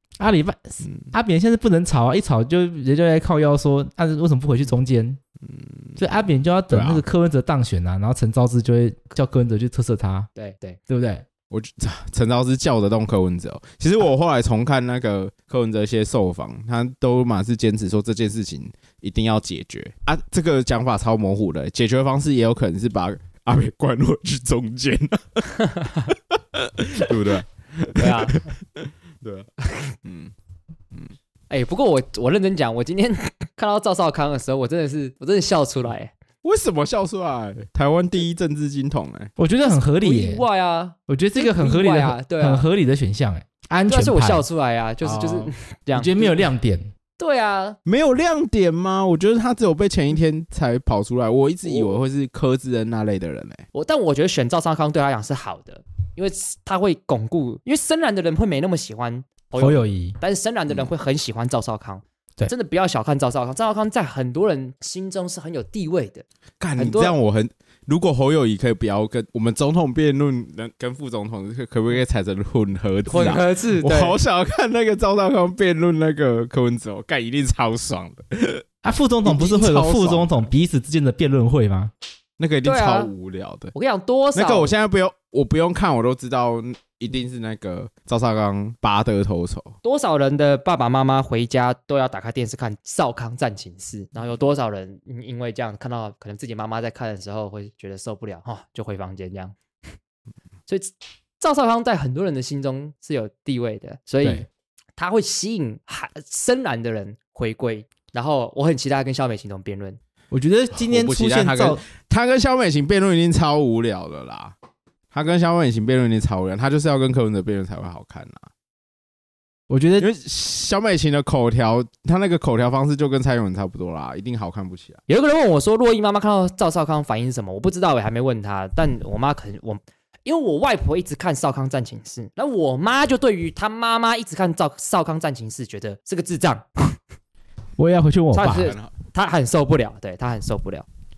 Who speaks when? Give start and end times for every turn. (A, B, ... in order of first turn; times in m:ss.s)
0:00.2-0:05.2 A
0:00.8-0:01.1 B
0:05.4-0:06.0 B
0:06.0-0:10.3 A
0:06.7-0:07.0 B
0:10.4-0:10.8 C
0:10.9-0:11.2 A
0:11.5-0:29.5 B
0:25.8-0:26.1 C
0:28.0-0:28.4 C
0:30.0-0:30.3 B
0:31.5-0:36.1 C
0:36.4-0:39.3 B
0:39.4-0:40.4 A
0:39.6-0:42.7 C
0:41.1-0:44.5 A
0:43.9-0:46.5 C
0:45.0-0:46.9 A
0:47.2-0:47.8 C
0:47.9-0:53.6 B
0:51.7-0:51.9 C
0:53.7-1:06.2 C
0:59.6-1:00.2 A
1:06.6-1:18.6 B
1:06.8-1:07.1 C
1:13.1-1:14.2 C
1:18.8-1:21.9 A
1:19.2-1:20.5 B
1:22.4-1:23.7 B
1:22.6-1:23.1 C
1:23.7-1:24.7 C
1:24.3-1:29.8 B
1:29.8-1:39.6 C
1:40.7-1:50.0 C
1:50.3-1:51.8 A
1:50.7-1:54.6 B
1:55.1-1:58.5 B
1:59.7-2:00.1 A
2:00.0-2:05.0 B
2:05.1-2:17.0 C
2:17.8-2:18.8 A
2:18.3-2:20.9 C
2:18.5-2:18.9 B